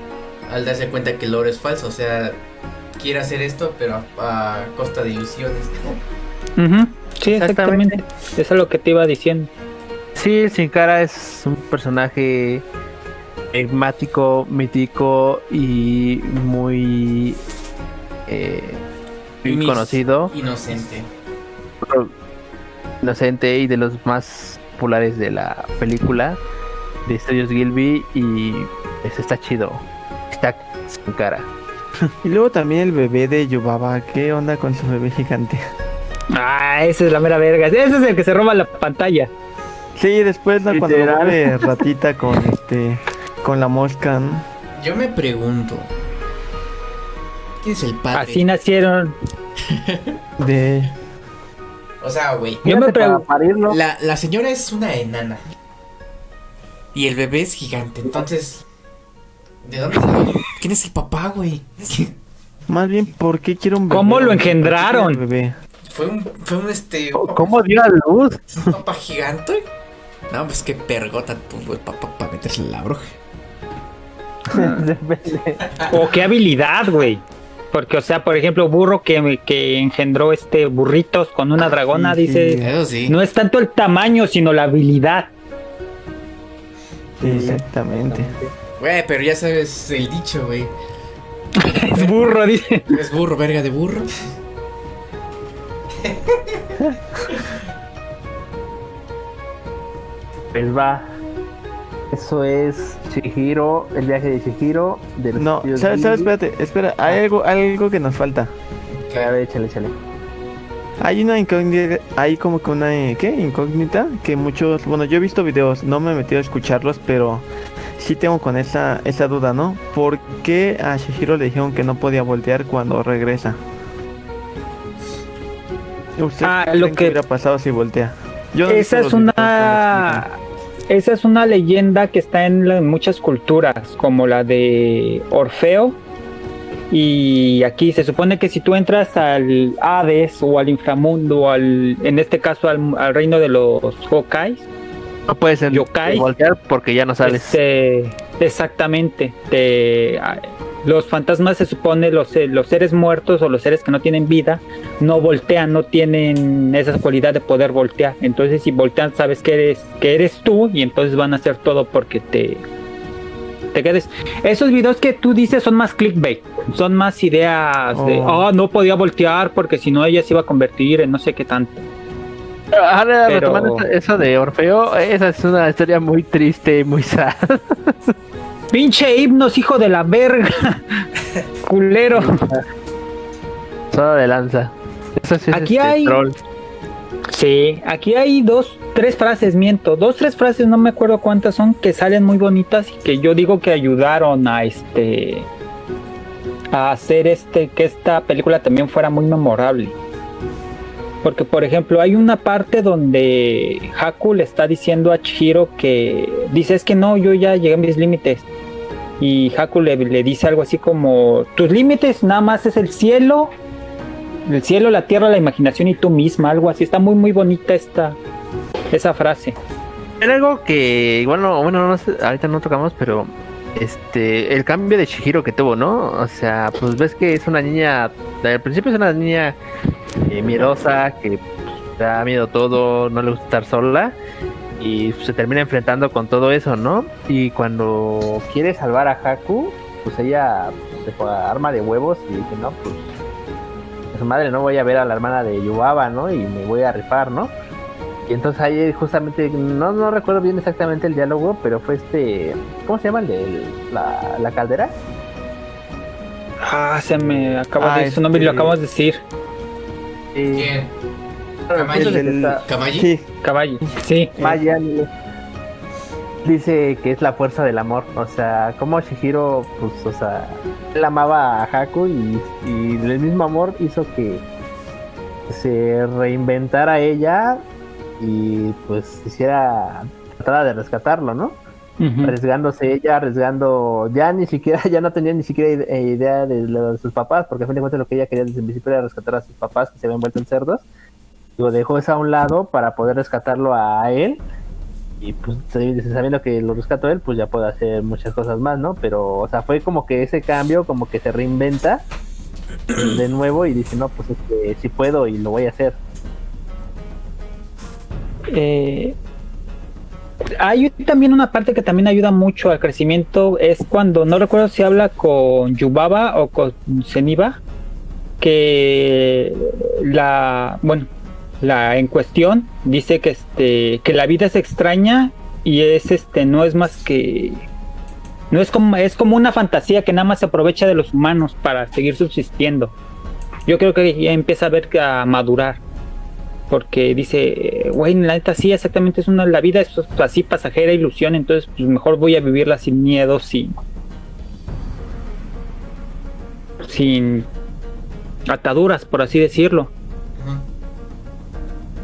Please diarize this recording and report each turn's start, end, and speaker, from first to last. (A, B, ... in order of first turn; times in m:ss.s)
0:00.5-0:02.4 A
0:03.0-0:06.0 A
0:06.6-0:09.5 B
0:07.3-0:08.0 C
0:10.2-0:12.6 C
0:13.5-0:17.4 C
0:18.3-0:18.8 C
0:19.4-0:20.3 C
0:19.5-0:21.1 A
0:21.8-0:22.1 C
0:23.0-0:26.4 C
0:27.1-0:31.5 C
0:32.2-0:35.6 D
0:36.3-0:39.3 B
0:40.0-0:44.4 D
0:40.7-0:41.6 C
0:44.8-0:45.9 A
0:47.6-0:48.4 A
0:48.1-0:49.2 B
0:49.7-0:50.1 A
0:50.4-0:50.9 D
0:52.0-0:52.6 A
0:52.6-0:53.8 C
0:52.7-0:53.2 B
0:53.7-0:55.4 A
0:56.9-0:58.6 A
0:59.6-1:02.2 A
1:02.7-1:05.6 D
1:03.9-1:05.2 B
1:05.9-1:07.6 A
1:07.2-1:08.8 C
1:08.6-1:09.6 A
1:10.3-1:13.2 A
1:14.5-1:14.8 B
1:14.5-1:15.6 C
1:15.9-1:25.3 B
1:21.9-1:22.7 D
1:22.6-1:23.2 A
1:27.2-1:28.3 D
1:27.2-1:28.5 C
1:28.8-1:30.7 A
1:31.6-1:32.9 B
1:31.6-1:32.2 A
1:32.9-1:34.1 A
1:36.0-1:36.8 A
1:40.5-1:41.1 C
1:42.1-1:46.3 C
1:45.3-1:48.5 D
1:49.0-1:49.3 A
1:49.2-1:50.0 C
1:51.0-1:57.5 D
1:58.0-2:03.6 D
2:06.2-2:10.2 D
2:06.4-2:07.2 B
2:08.7-2:10.4 B
2:10.9-2:16.0 B
2:16.9-2:24.6 B
2:25.3-2:27.6 C
2:25.7-2:26.3 B
2:27.2-2:42.6 B
2:43.7-2:51.8 B
2:47.9-2:48.5 D
2:52.7-2:58.1 C
2:53.3-2:53.8 B
2:58.7-3:01.0 B
3:01.6-3:02.4 B
3:02.1-3:02.6 C
3:03.9-3:06.4 C
3:05.5-3:06.2 B
3:07.3-3:15.5 B
3:16.7-3:20.0 B
3:21.2-3:28.4 B
3:29.2-3:33.6 B
3:34.5-3:38.2 B
3:38.9-3:39.6 B
3:40.2-3:49.6 C
3:50.3-3:54.2 C
3:54.8-4:03.1 C
4:04.1-4:07.5 C
4:08.3-4:15.0 C
4:16.6-4:19.2 B
4:17.2-4:17.6 C
4:17.8-4:18.8 D
4:20.3-4:20.7 C
4:20.5-4:20.9 A
4:21.7-4:22.6 C
4:21.7-4:23.1 A
4:21.9-4:23.2 D
4:23.4-4:24.3 B
4:23.8-4:24.6 D
4:24.4-4:25.1 C
4:26.4-4:34.4 C
4:35.5-4:37.6 C
4:38.2-4:41.6 C
4:42.0-4:42.4 B
4:42.2-4:50.8 C
4:51.6-4:54.4 C
4:55.2-5:02.0 C
5:02.9-5:06.0 C
5:08.5-5:09.2 B
5:10.6-5:17.6 B
5:18.4-5:21.1 B
5:21.6-5:27.6 B
5:28.5-5:32.9 B
5:33.7-5:35.8 B
5:36.7-5:43.8 B
5:46.8-5:47.5 B
5:48.5-5:49.9 B
5:50.4-5:50.6 A